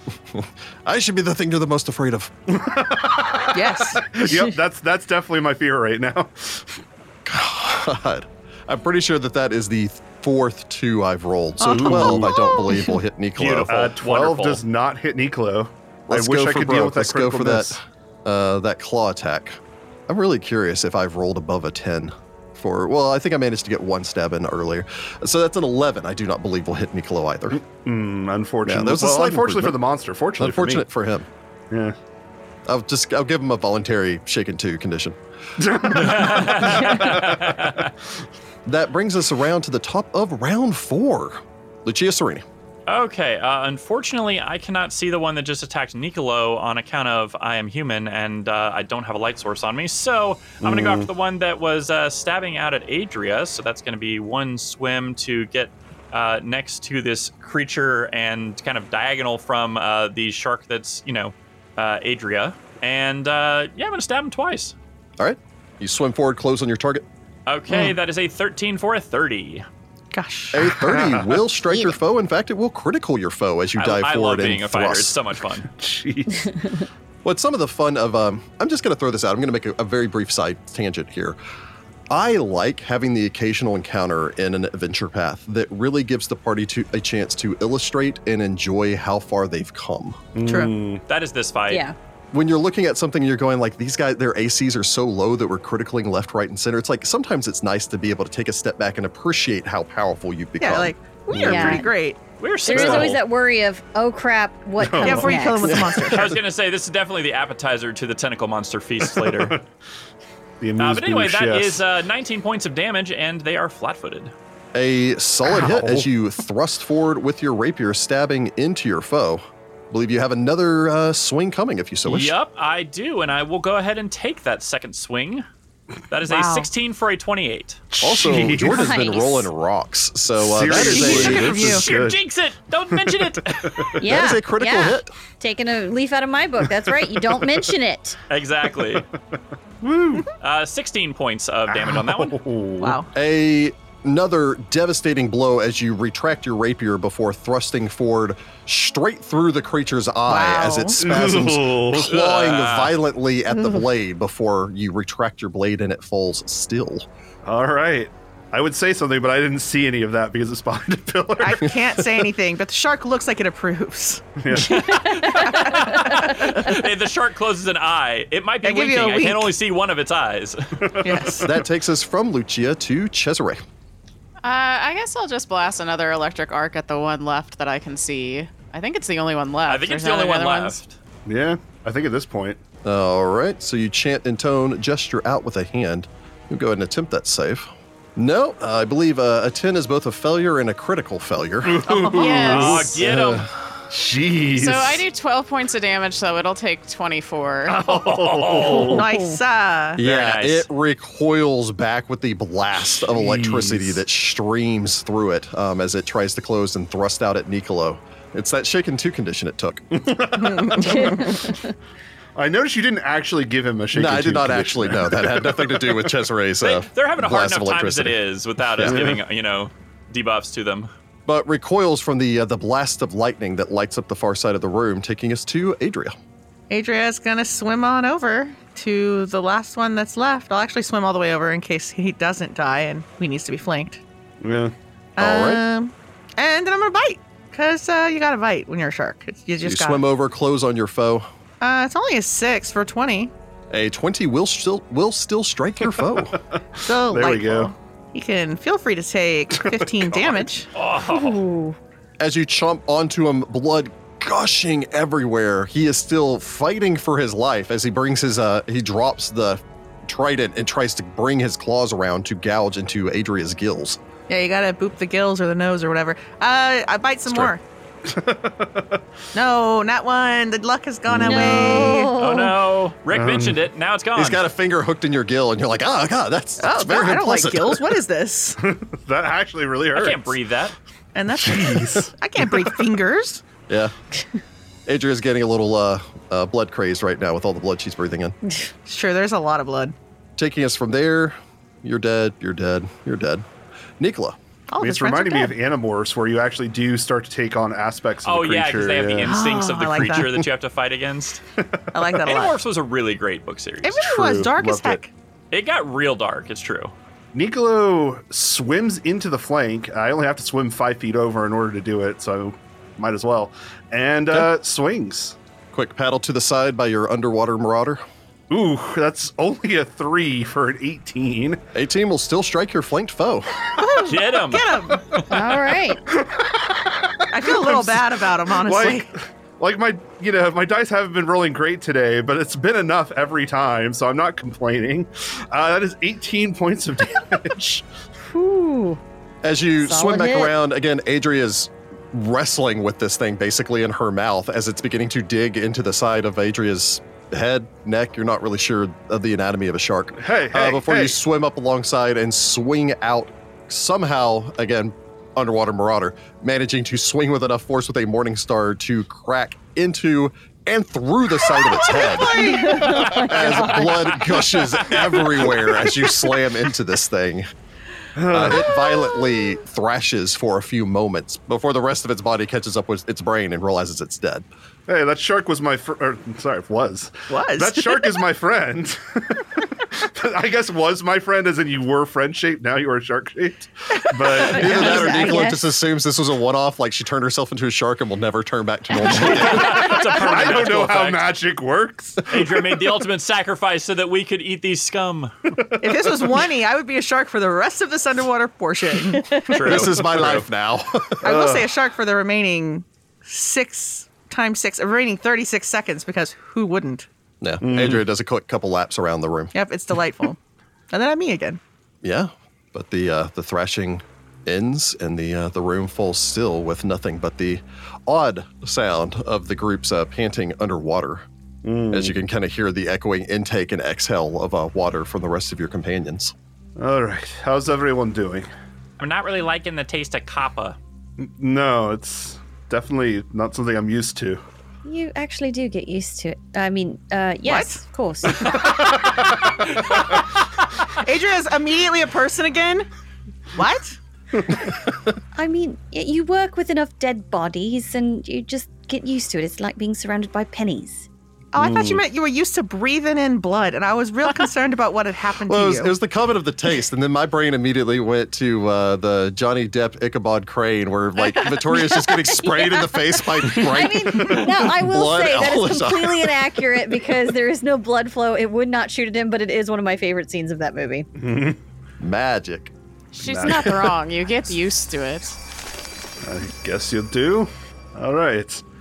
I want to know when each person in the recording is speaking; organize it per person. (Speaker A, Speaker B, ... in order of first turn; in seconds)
Speaker A: 0.3-2.3, 7.2-13.8, 16.1-19.6, 20.1-27.6, 28.6-29.8, 30.4-31.3, 32.7-35.2, 38.7-42.4, 65.2-67.1, 70.5-75.1, 77.2-81.4, 82.1-90.2, 92.3-101.8, 105.7-106.3, 114.7-122.3, 128.0-131.8, 134.1-135.1, 143.1-157.1, 171.4-173.6, 182.8-192.1, 193.0-193.7, 200.0-210.0, 213.9-219.2, 221.3-226.2, 235.2-235.6, 239.6-241.3, 243.7-246.4, 252.2-264.0, 267.3-267.6, 274.2-277.9, 284.9-288.4, 290.4-293.4, 294.0-294.4, 315.7-318.0, 321.7-323.5, 339.4-367.5, 368.3-374.5, 384.4-390.0, 399.6-401.3, 407.4-409.6, 412.0-421.2, 421.9-426.3, 455.5-466.6, 472.0-472.7
Speaker B: 2.5-6.8, 11.6-12.5, 13.7-17.8, 27.5-30.9, 31.7-32.0, 35.6-37.8, 50.6-51.1, 70.8-71.4, 75.6-76.8, 90.3-91.0, 102.7-103.1, 104.8-105.7, 109.1-109.6, 110.6-111.8, 115.5-116.1, 127.9-128.9, 130.3-132.2, 133.0-134.0, 139.8-140.3, 141.7-143.0, 151.0-152.1, 157.4-162.3, 164.4-164.9, 170.8-171.5, 181.3-182.6, 191.6-193.0, 193.9-195.1, 197.7-199.1, 203.1-204.0, 209.9-211.6, 212.4-216.2, 218.8-219.2, 234.4-234.7, 246.5-247.7, 249.5-250.5, 268.1-269.0, 271.1-271.9, 273.1-273.6, 278.6-280.4, 281.3-282.9, 294.8-299.4, 304.0-305.0, 307.3-315.4, 318.5-321.6, 326.1-328.0, 328.6-337.9, 350.2-351.2, 362.6-363.4, 368.2-368.8, 374.9-385.4, 389.6-392.8, 395.6-396.3, 401.2-401.7, 407.6-408.1, 421.6-422.2, 426.8-428.5, 431.2-434.4, 438.6-439.2, 451.6-452.0, 471.2-471.6, 473.2-474.0, 476.2-478.6
Speaker C: 3.5-4.1, 11.6-12.9, 67.7-68.0, 70.1-70.9, 90.4-90.7, 100.6-102.2, 105.0-106.4, 126.2-126.7, 130.7-131.8, 142.8-143.1, 150.3-151.0, 161.4-164.2, 165.4-166.8, 168.6-169.5, 171.0-171.6, 198.7-200.0, 210.6-211.2, 226.7-234.0, 235.2-240.0, 241.6-243.3, 246.8-250.7, 264.3-267.6, 269.3-272.1, 276.6-278.6, 281.1-283.4, 288.9-289.9, 294.7-295.6, 299.3-300.5, 301.9-302.6, 303.8-305.1, 323.8-325.0, 327.3-329.1, 361.4-363.1, 377.3-378.2, 395.8-399.5, 401.2-407.1, 409.5-410.4, 410.9-411.6, 437.4-437.8, 440.9-442.9, 443.5-444.0, 451.5-455.9
Speaker D: 13.4-14.6, 35.9-37.9, 42.9-64.7, 67.5-69.7, 73.8-75.7, 91.1-91.8, 102.4-103.2, 106.1-109.6, 110.8-114.3, 122.0-125.5, 126.1-127.8, 130.9-134.0, 138.3-139.1, 140.4-142.4, 152.0-153.0, 164.5-171.0, 179.7-180.9, 192.4-193.5, 197.8-199.0, 200.0-200.7, 216.6-220.9, 250.8-251.4, 272.1-274.4, 279.9-280.8, 298.2-301.4, 302.2-304.1, 305.5-306.9, 324.0-324.7, 389.0-391.4, 392.3-395.3, 399.4-400.5, 429.0-430.8
Speaker E: 91.7-92.0, 101.3-101.9, 102.7-105.9, 128.6-129.5, 134.0-138.2, 164.8-166.5, 199.0-199.4, 211.2-211.5, 251.0-251.8, 271.2-272.6, 325.3-326.0, 338.3-339.0, 339.8-340.6, 362.3-364.3, 384.5-385.7, 434.8-438.9, 445.3-451.1, 462.1-471.1
Speaker F: 174.4-180.8, 192.1-193.0, 194.5-197.9, 473.1-475.4